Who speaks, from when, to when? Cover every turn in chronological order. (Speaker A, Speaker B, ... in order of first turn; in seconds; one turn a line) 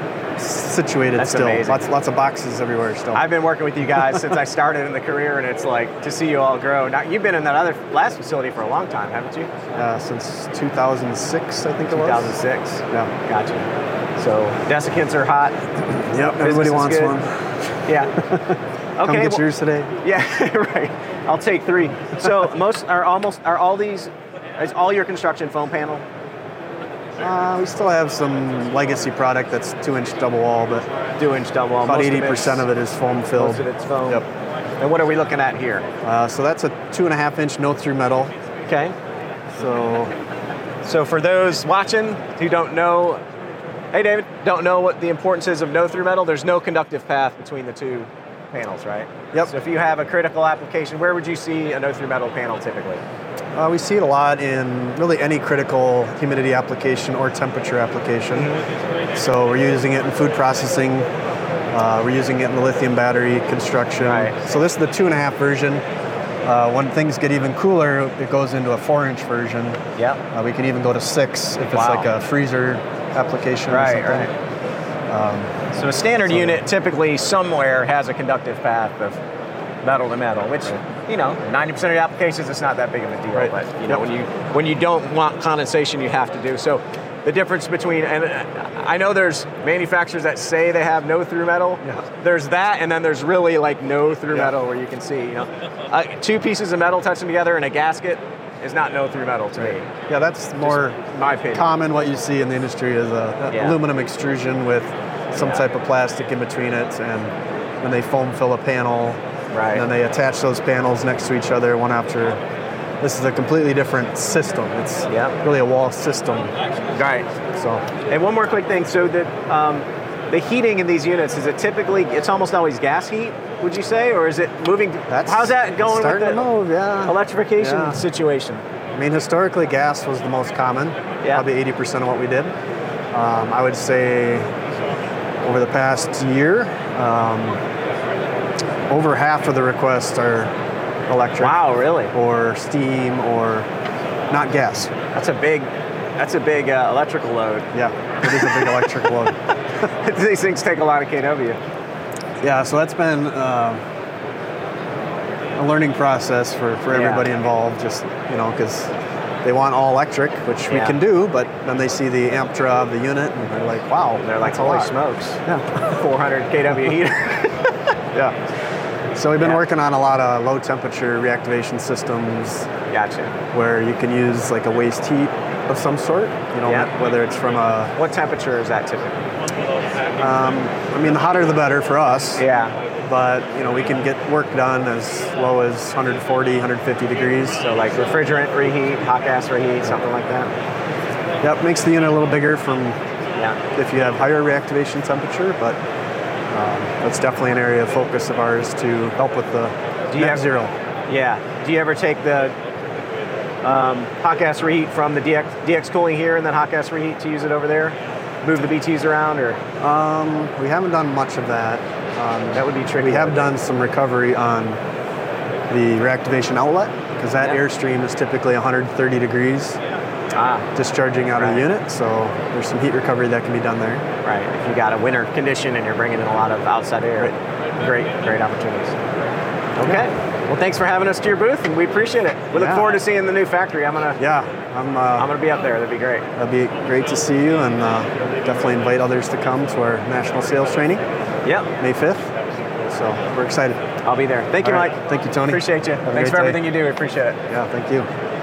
Speaker A: 0.4-3.3
Speaker B: 1.2-1.9
Speaker B: 3.1-9.5
Speaker A: 9.7-12.3
Speaker B: 11.9-15.6
Speaker A: 16.1-17.4
Speaker B: 16.1-17.2
Speaker B: 17.9-18.1
Speaker A: 18.2-20.0
Speaker B: 19.0-19.4
Speaker B: 20.0-26.0
Speaker A: 27.2-30.9
Speaker B: 31.2-32.6
Speaker A: 31.8-34.2
Speaker B: 33.4-34.2
Speaker B: 34.8-35.8
Speaker A: 36.0-38.3
Speaker B: 38.7-38.9
Speaker A: 39.6-40.1
Speaker B: 40.8-43.2
Speaker B: 43.9-53.0
Speaker A: 53.5-58.5
Speaker B: 58.3-58.6
Speaker A: 59.1-61.1
Speaker A: 61.7-65.8
Speaker B: 64.0-64.3
Speaker A: 66.4-69.8
Speaker A: 70.3-74.3
Speaker B: 71.7-72.1
Speaker B: 73.7-74.3
Speaker A: 75.1-75.5
Speaker B: 75.7-79.2
Speaker A: 76.3-76.6
Speaker B: 79.8-99.9
Speaker A: 83.3-84.0
Speaker A: 99.6-101.0
Speaker B: 100.6-101.7
Speaker A: 101.5-109.2
Speaker B: 103.5-103.8
Speaker B: 105.4-105.6
Speaker B: 109.5-109.8
Speaker A: 109.7-112.4
Speaker A: 113.0-116.5
Speaker B: 115.1-115.4
Speaker B: 116.9-117.3
Speaker A: 117.5-117.8
Speaker B: 118.1-126.5
Speaker A: 125.1-128.0
Speaker B: 127.0-128.6
Speaker A: 128.9-132.5
Speaker A: 133.1-134.4
Speaker A: 135.4-137.6
Speaker A: 138.9-140.5
Speaker A: 141.1-141.6
Speaker B: 141.4-142.1
Speaker A: 142.1-143.7
Speaker A: 144.3-144.9
Speaker B: 145.1-147.7
Speaker A: 147.7-149.3
Speaker B: 148.2-148.8
Speaker B: 150.0-151.6
Speaker A: 152.4-153.8
Speaker A: 155.6-158.9
Speaker B: 156.9-157.3
Speaker A: 159.4-164.9
Speaker B: 160.7-161.0
Speaker B: 164.2-167.7
Speaker A: 165.4-165.8
Speaker A: 169.1-172.7
Speaker B: 172.9-173.3
Speaker A: 173.5-177.9
Speaker B: 176.6-176.9
Speaker B: 177.9-179.2
Speaker A: 180.2-182.4
Speaker B: 182.4-182.7
Speaker A: 183.0-187.6
Speaker B: 187.6-190.5
Speaker A: 191.4-193.0
Speaker A: 193.7-195.8
Speaker A: 196.5-200.7
Speaker B: 200.1-200.4
Speaker B: 201.1-202.5
Speaker B: 203.6-209.6
Speaker A: 209.8-214.8
Speaker B: 212.5-213.5
Speaker A: 215.7-219.8
Speaker B: 220.3-220.7
Speaker A: 220.7-224.0
Speaker B: 221.3-221.7
Speaker B: 224.2-229.0
Speaker B: 229.8-234.2
Speaker A: 232.5-233.0
Speaker A: 234.2-235.3
Speaker B: 235.2-236.2
Speaker A: 236.4-241.0
Speaker B: 241.4-241.7
Speaker A: 241.8-242.3
Speaker A: 242.9-243.8
Speaker B: 244.0-247.4
Speaker A: 244.6-246.7
Speaker A: 247.5-248.1